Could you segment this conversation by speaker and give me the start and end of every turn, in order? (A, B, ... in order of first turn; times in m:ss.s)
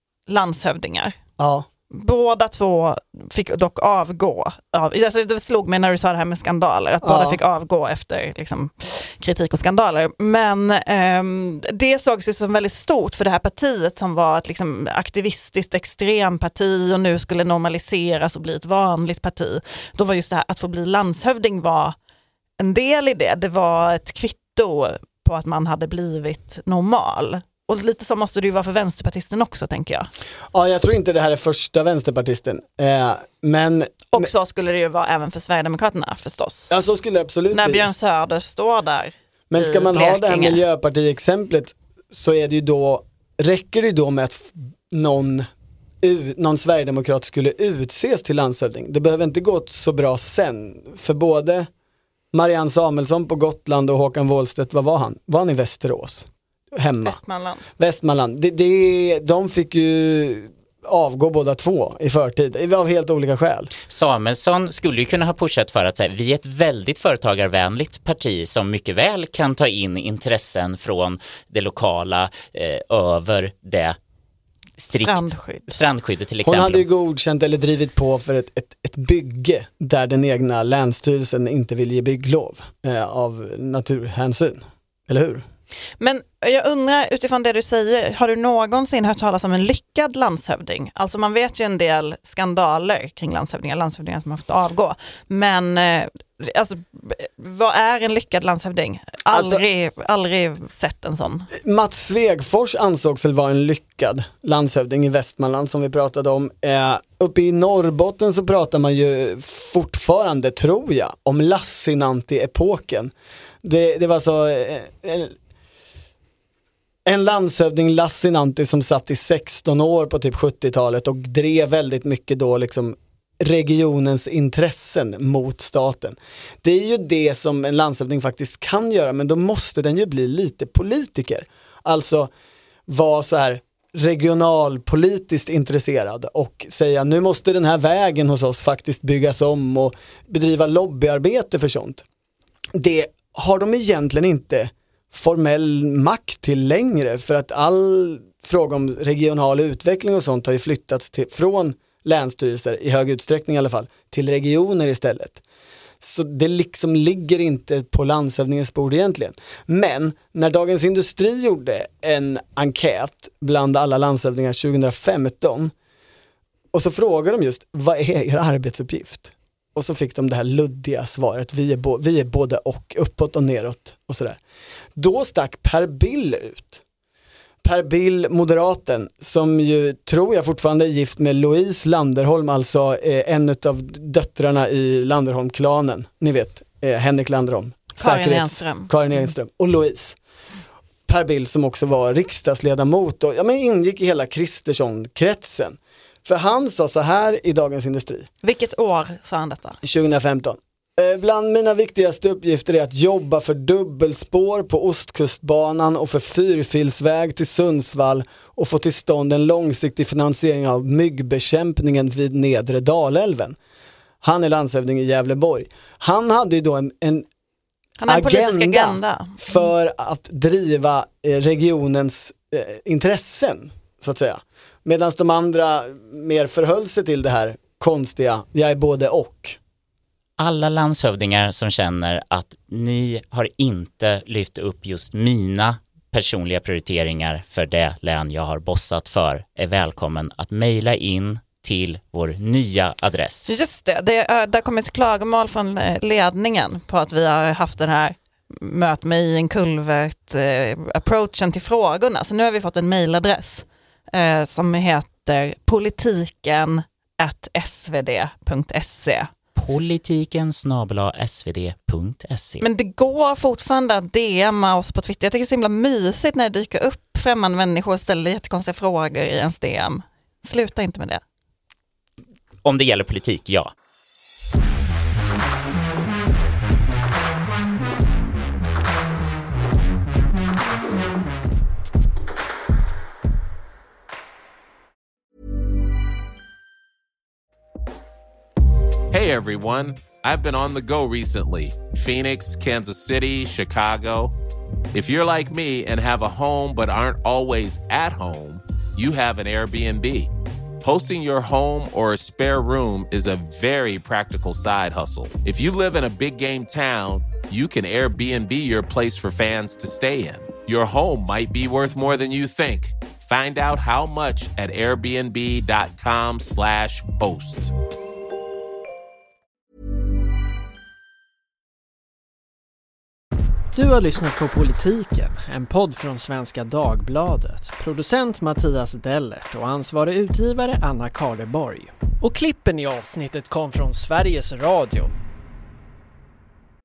0:00.3-0:01.2 A
0:01.4-0:01.7 B
0:01.9-0:21.9 A
0:07.0-0:07.4 B
0:22.6-0:30.1 A
0:30.5-0:34.3 B
0:34.1-0:36.8 A
0:36.7-0:37.9 B
0:37.5-0:40.6 A
0:39.5-0:45.5 B
0:46.0-0:51.7 B
0:52.3-0:57.2 B
0:57.0-0:57.6 A
0:57.8-1:03.7 B
1:03.9-1:14.0 C
1:14.8-1:16.8 C
1:14.9-1:15.7 A
1:16.4-1:25.4 B
1:26.0-1:41.5 A
1:39.3-1:39.6 B
1:41.5-1:55.4 B
1:57.0-2:12.3 B
2:12.9-2:22.0 B
2:22.7-2:35.4 B
2:36.0-2:45.7 B
2:46.7-2:54.4 B
2:55.0-2:56.8 B
2:57.6-3:10.2 B
3:08.0-3:08.9 A
3:11.1-3:18.3 B
3:18.4-3:19.8 A
3:19.8-3:33.6 B
3:34.2-3:37.2 B
3:38.0-3:39.4 A
3:38.1-3:49.6 B
3:50.4-4:03.5 C
4:03.5-4:19.3 A
4:19.6-4:22.6 C
4:22.6-4:31.2 A
4:32.6-4:33.7 C
4:49.1-4:54.3 D
4:54.9-5:00.3 D
5:00.8-5:17.7 D
5:23.7-5:35.1 E